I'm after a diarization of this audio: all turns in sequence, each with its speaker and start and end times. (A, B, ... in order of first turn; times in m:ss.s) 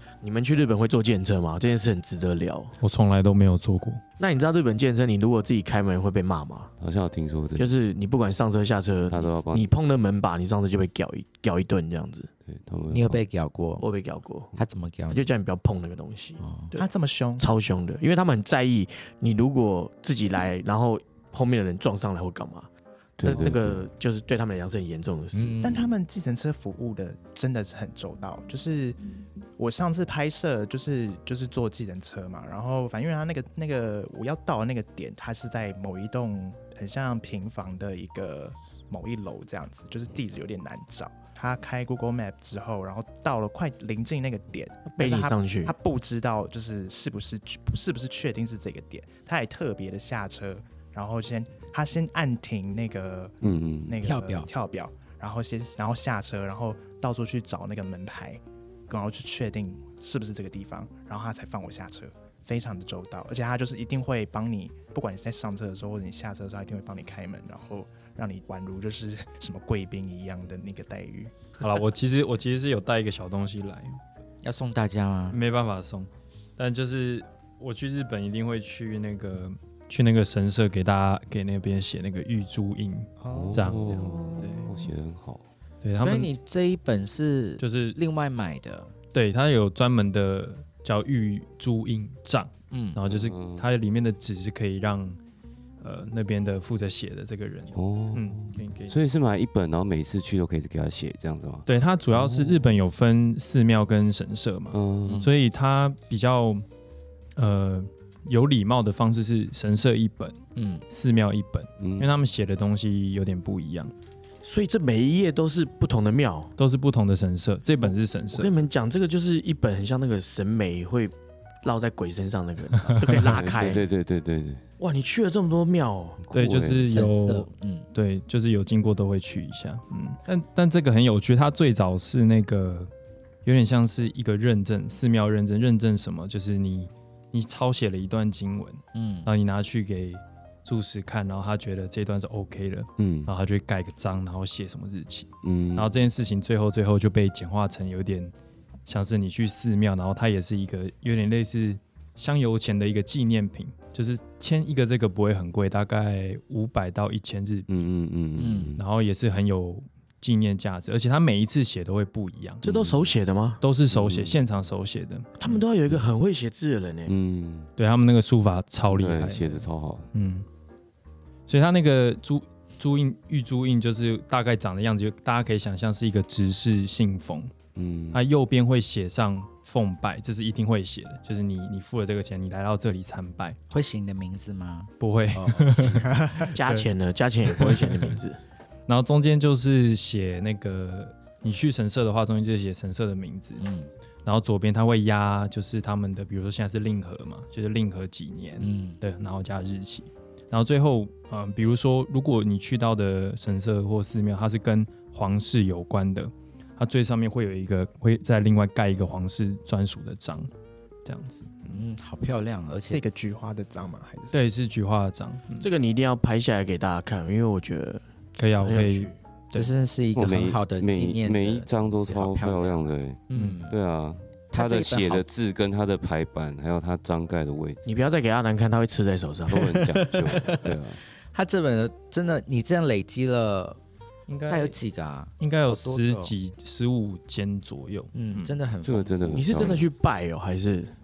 0:00.2-0:02.8 A
0:02.8-0:04.0 B
0:04.2-0:06.7 A
0:06.8-0:07.8 C
0:07.6-0:12.3 A
0:09.1-0:09.7 C
0:12.4-0:13.2 C
0:12.9-0:13.8 D
0:13.8-0:14.5 A
0:14.6-0:15.2 D
0:15.1-0:16.9 A
0:16.4-0:16.7 D
0:16.8-0:17.5 E
0:17.4-0:22.7 A
0:23.2-0:23.9 C
0:23.2-0:25.6 A
0:25.3-0:25.9 D
0:25.6-0:29.0 E
0:29.6-0:53.4 E
0:44.9-0:45.7 A
0:53.4-0:54.0 C
0:53.9-1:11.3 E
0:54.0-0:54.5 D
1:11.6-1:14.0 B
1:14.4-1:15.4 D
1:15.3-1:24.7 B
1:23.2-1:23.6 E
1:23.3-1:25.4 C
1:23.9-1:24.7 D
1:25.8-1:26.3 B
1:26.0-1:28.9 D
1:27.6-1:28.0 B
1:29.1-1:35.2 B
1:32.7-1:33.0 D
1:33.1-1:33.6 C
1:35.8-1:39.0 B
1:37.7-1:42.7 C
1:41.6-1:46.6 B
1:44.7-1:45.3 C
1:45.1-1:45.3 D
1:47.4-1:50.4 B
1:50.6-1:50.8 D
1:50.9-1:53.9 B
1:51.8-1:52.2 C
1:54.4-1:56.5 A
1:56.6-1:58.5 B
1:58.3-2:03.8 A
2:03.1-2:04.6 C
2:04.8-2:06.2 A
2:06.2-2:06.9 C
2:06.3-2:12.9 B
2:06.9-2:07.9 D
2:13.4-2:28.3 B
2:18.9-2:19.3 D
2:23.0-2:23.3 C
2:25.4-2:26.0 C
2:28.9-2:37.7 B
2:37.7-2:38.8 C
2:38.4-2:38.8 D
2:38.8-2:42.6 B
2:42.6-2:43.6 A
2:42.6-2:43.2 C
2:43.6-2:45.3 B
2:43.9-2:44.4 C
2:45.4-2:47.1 A
2:47.1-2:47.7 C
2:47.8-2:50.4 B
2:48.9-2:50.1 C
2:51.5-2:57.5 B
2:57.7-2:58.2 C
2:58.1-3:03.6 B
3:03.7-3:06.1 D
3:05.0-3:06.9 B
3:06.1-3:06.5 E
3:06.5-3:08.4 A
3:07.6-3:08.1 B
3:08.9-3:13.6 B
3:13.6-3:13.9 D
3:14.2-3:30.5 B
3:18.6-3:19.0 D
3:31.0-3:31.8 B
3:31.7-3:33.0 D
3:32.9-3:34.4 E
3:34.3-3:35.7 B
3:35.6-3:38.0 A
3:38.4-3:39.7 B
3:38.6-3:39.2 A
3:39.5-3:43.8 D
3:40.1-3:47.9 C
3:43.3-3:43.6 B
3:44.5-3:45.2 D
3:47.8-3:49.8 A
3:49.5-3:51.0 C
3:49.7-3:50.7 D
3:51.3-3:53.8 D
3:54.3-3:54.8 B
3:54.5-3:56.3 D
3:55.4-3:58.6 B
3:58.1-3:59.8 D
3:58.8-3:59.9 C
3:59.3-4:00.9 A